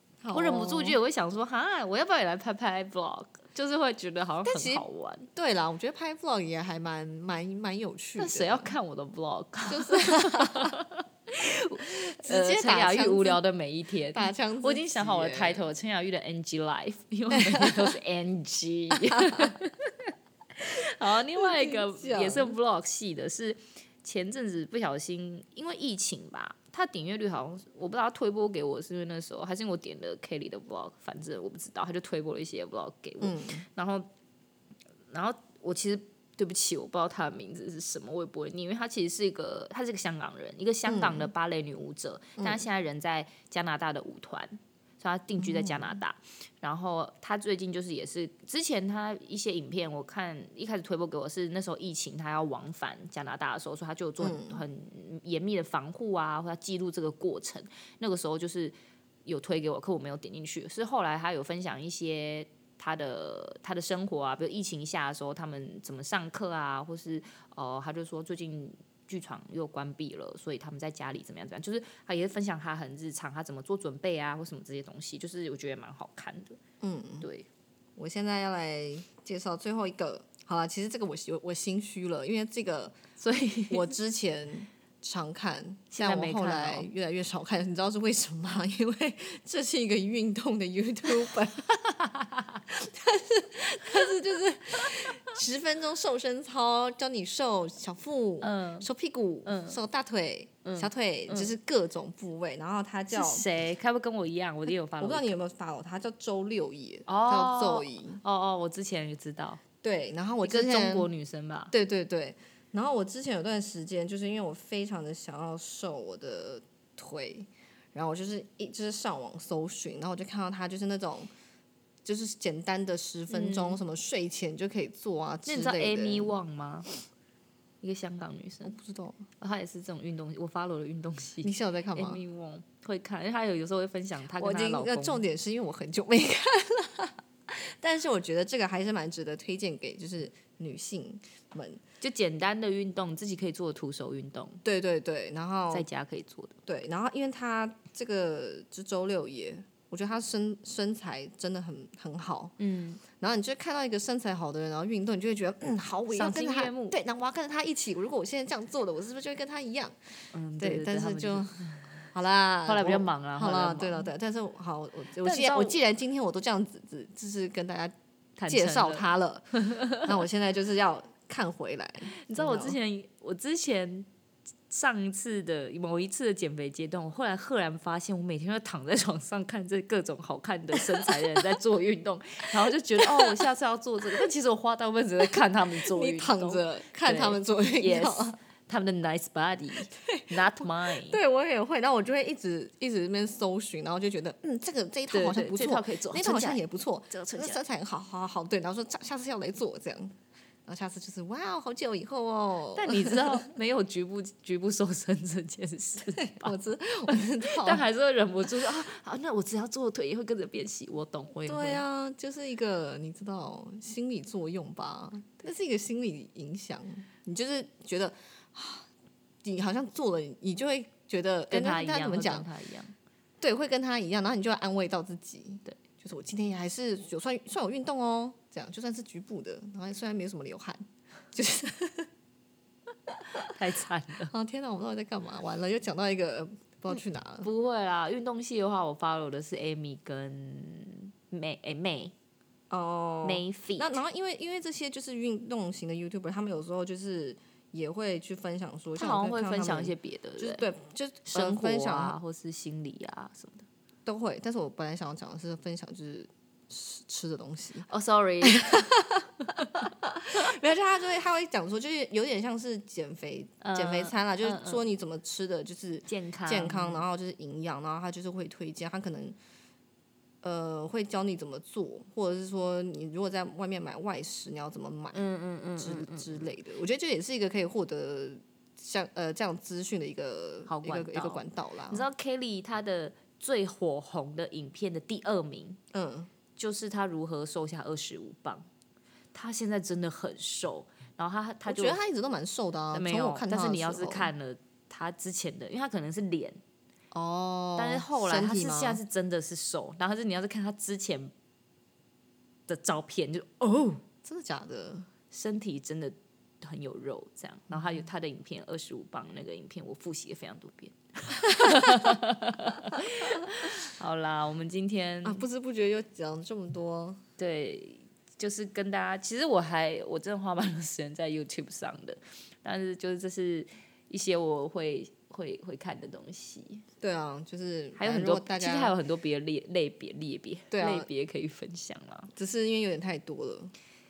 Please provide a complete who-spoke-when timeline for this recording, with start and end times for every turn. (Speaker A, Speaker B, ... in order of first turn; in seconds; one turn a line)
Speaker A: 0.2-1.0
Speaker B: 0.3-5.3
Speaker A: 4.4-8.7
Speaker B: 8.2-34.1
Speaker A: 9.7-10.7
Speaker A: 12.0-13.4
Speaker A: 14.1-15.7
Speaker A: 17.3-17.9
Speaker A: 18.9-19.5
Speaker A: 21.4-22.6
Speaker A: 33.2-33.6
Speaker B: 35.1-76.6
Speaker A: 40.9-41.3
Speaker A: 42.4-42.6
Speaker A: 45.4-46.0
Speaker A: 54.2-54.6
Speaker A: 76.8-77.3
Speaker B: 77.2-77.5
Speaker A: 78.0-83.0
Speaker B: 83.2-83.9
Speaker A: 83.7-91.8
Speaker B: 85.9-86.9
Speaker B: 91.9-92.6
Speaker A: 92.7-103.4
Speaker B: 98.4-98.9
Speaker B: 99.5-99.8
Speaker B: 100.6-101.5
Speaker B: 103.1-105.3
Speaker A: 105.0-108.2
Speaker B: 107.1-109.6
Speaker A: 109.8-111.1
Speaker B: 110.4-111.7
Speaker A: 111.7-121.3
Speaker A: 122.0-126.3
Speaker B: 123.3-123.8
Speaker B: 125.4-126.9
Speaker B: 127.8-128.8
Speaker A: 128.6-129.3
Speaker B: 129.4-135.2
Speaker A: 131.4-132.2
Speaker A: 134.3-141.8
Speaker B: 142.0-144.6
Speaker A: 144.6-145.8
Speaker B: 145.7-146.6
Speaker A: 146.7-152.6
Speaker B: 152.6-153.0
Speaker A: 153.2-160.0
Speaker B: 156.1-156.9
Speaker B: 160.3-162.1
Speaker A: 160.6-167.9
Speaker B: 162.6-164.1
Speaker B: 165.2-165.8
Speaker B: 168.4-169.0
Speaker A: 168.5-172.8
Speaker B: 169.6-170.2
Speaker B: 172.2-174.1
Speaker B: 174.7-191.2
Speaker A: 181.0-181.3
Speaker A: 183.0-183.3
Speaker A: 185.8-188.4
Speaker A: 189.9-203.4
Speaker B: 195.1-197.6
Speaker B: 202.7-206.6
Speaker A: 206.0-207.8
Speaker B: 207.4-211.8
Speaker A: 211.4-218.9
Speaker A: 219.4-222.5
Speaker B: 221.5-222.9
Speaker A: 223.4-232.1
Speaker B: 233.5-234.3
Speaker A: 234.3-237.5
Speaker B: 236.9-242.1
Speaker A: 242.7-252.2
Speaker B: 243.2-244.0
Speaker B: 248.9-250.6
Speaker B: 251.3-253.7
Speaker A: 254.1-257.9
Speaker B: 257.9-258.9
Speaker A: 258.4-269.4
Speaker B: 259.6-259.9
Speaker B: 263.6-264.8
Speaker B: 266.1-267.0
Speaker A: 270.4-275.2
Speaker B: 275.1-276.4
Speaker A: 275.8-282.0
Speaker B: 280.7-285.8
Speaker A: 285.9-286.3
Speaker B: 286.6-288.7
Speaker B: 289.3-292.0
Speaker A: 291.6-294.3
Speaker B: 292.9-296.6
Speaker A: 297.1-299.0
Speaker B: 297.8-301.3
Speaker B: 302.7-304.0
Speaker A: 304.2-305.1
Speaker B: 305.3-315.4
Speaker A: 315.2-317.2
Speaker B: 317.4-326.8
Speaker A: 327.0-328.9
Speaker B: 327.9-332.3
Speaker A: 330.7-331.1
Speaker A: 332.4-333.7